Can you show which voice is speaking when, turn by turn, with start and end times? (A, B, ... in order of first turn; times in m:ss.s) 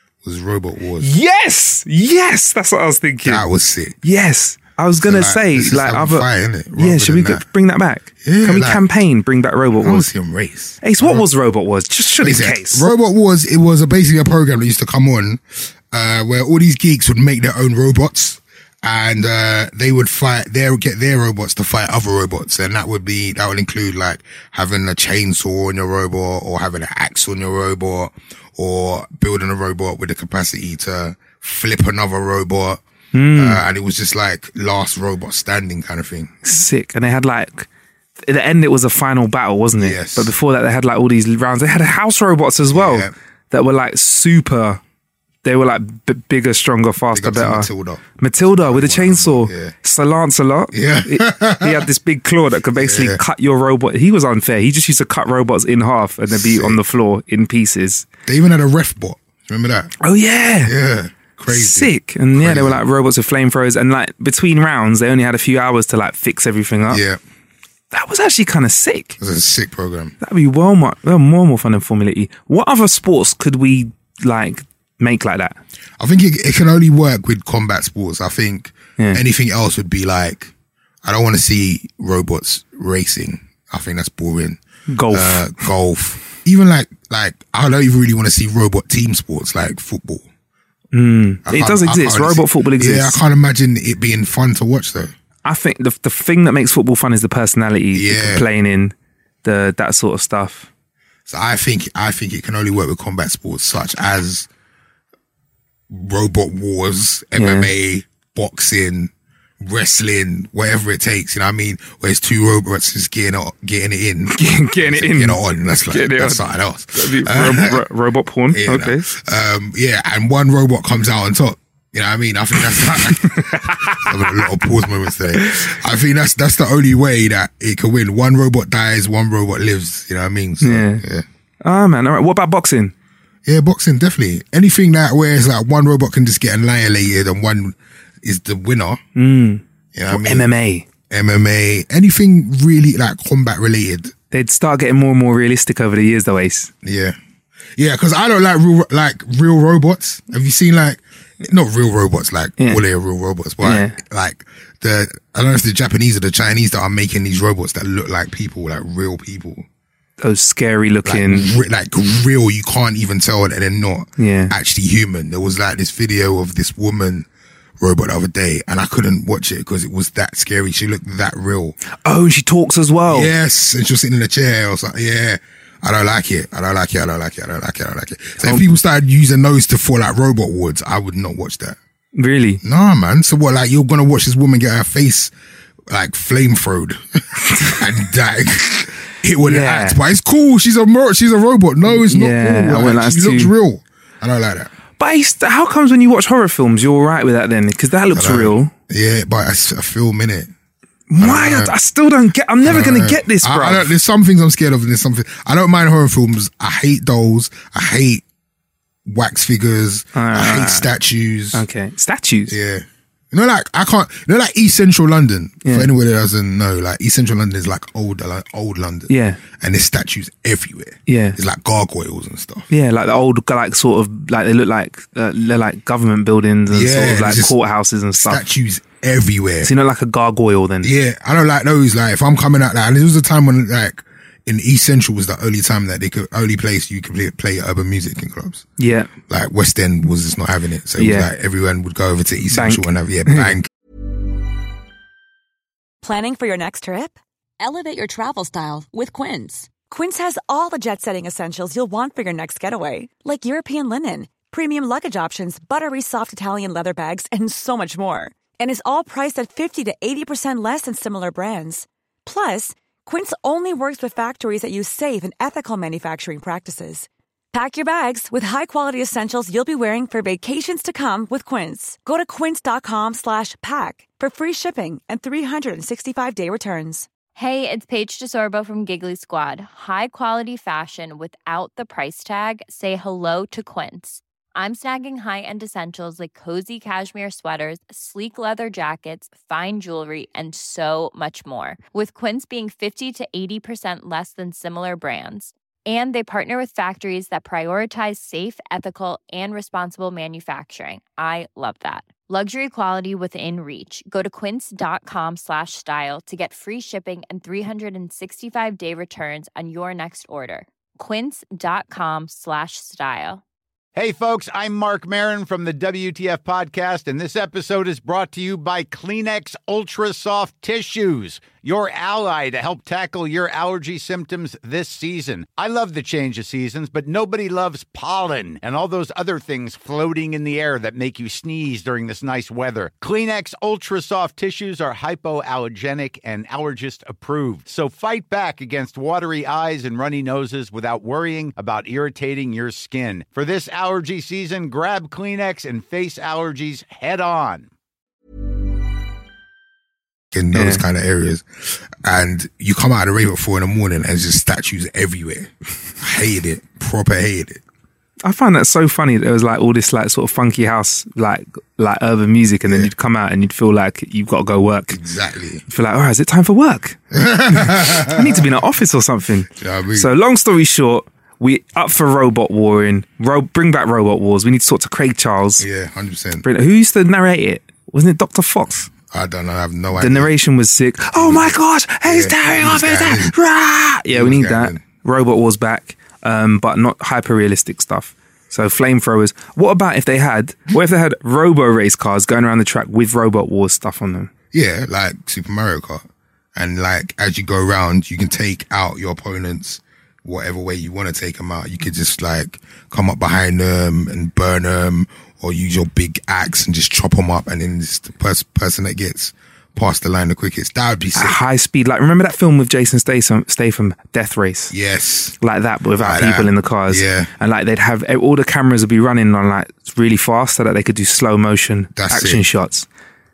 0:00.2-0:01.1 A
0:01.0-0:03.5 B
0:03.2-0:04.0 A
0:04.0-0:10.1 B
0:05.0-0:07.4 A
0:08.2-0:08.8 A
0:09.8-0:11.2 A
0:10.8-0:12.9 B
0:12.2-0:32.8 A
0:33.1-0:33.6 B
0:33.3-0:36.3 A
0:36.4-0:37.7 B
0:38.2-0:44.8 B
0:39.8-0:40.3 A
0:42.7-0:43.1 A
0:45.4-0:58.1 B
0:47.1-0:48.1 A
0:48.6-0:49.7 A
0:50.7-0:51.9 A
0:52.8-0:53.2 A
0:56.3-0:56.8 A
0:58.3-0:59.9 A
1:00.0-1:00.7 B
1:00.6-1:02.8 A
1:01.5-1:07.0 B
1:06.9-1:07.2 A
1:07.9-1:09.2 B
1:09.2-1:10.2 A
1:10.2-1:15.6 B
1:16.0-1:20.5 A
1:21.0-1:30.2 A
1:24.9-1:25.6 B
1:30.9-1:33.2 B
1:31.5-1:35.1 A
1:35.4-1:40.7 B
1:37.9-1:38.5 A
1:41.3-1:44.5 A
1:45.9-1:57.8 A
1:47.4-1:47.7 B
1:54.3-1:59.1 B
1:58.5-2:11.3 A
2:03.1-2:04.5 B
2:05.3-2:05.7 B
2:10.6-2:11.0 B
2:11.6-2:12.9 B
2:13.5-2:19.0 A
2:19.2-2:20.9 B
2:20.0-2:20.5 A
2:21.1-2:24.1 A
2:24.3-2:26.7 B
2:26.8-2:27.2 A
2:27.8-2:39.7 A
2:33.6-2:34.0 B
2:40.2-2:41.5 B
2:41.0-2:47.3 A
2:44.2-2:44.5 B
2:47.8-2:51.8 A
2:52.0-2:53.3 B
2:53.1-3:01.8 A
2:58.4-2:58.7 B
3:02.2-3:02.6 B
3:02.6-3:05.3 A
3:05.9-3:14.7 A
3:09.4-3:10.0 B
3:11.9-3:13.5 B
3:15.0-3:18.7 B
3:18.1-3:20.5 A
3:21.1-3:23.9 B
3:21.2-3:21.7 A
3:22.6-3:28.2 A
3:29.1-3:31.6 A
3:30.2-3:30.9 B
3:31.5-3:32.6 B
3:32.5-3:42.7 A
3:39.1-3:39.4 B
3:41.1-3:41.4 B
3:42.7-3:48.4 B
3:46.7-3:47.6 A
3:48.2-3:49.7 A
3:49.6-3:50.9 B
3:50.8-3:58.6 A
3:58.8-3:59.1 B
3:59.3-4:03.7 A
4:01.0-4:01.3 B
4:02.5-4:03.6 B
4:06.0-4:37.1 C
4:37.4-5:13.4 D
5:14.0-5:47.7 E
5:50.3-5:57.6 A
5:50.5-5:50.8 B
5:58.2-6:05.0 B
6:02.7-6:02.9 A
6:04.9-6:05.6 A
6:05.7-6:15.6 B
6:07.1-6:08.4 A
6:09.6-6:10.1 A
6:15.6-6:16.5 A
6:16.4-6:18.9 B
6:19.1-6:20.3 A
6:20.0-6:34.3 B
6:21.2-6:23.3 A
6:24.1-6:24.8 A
6:34.5-6:51.4 A
6:51.2-6:54.7 B
6:54.7-6:55.4 A
6:55.4-7:02.9 B
6:56.0-6:57.3 A
7:02.0-7:02.4 A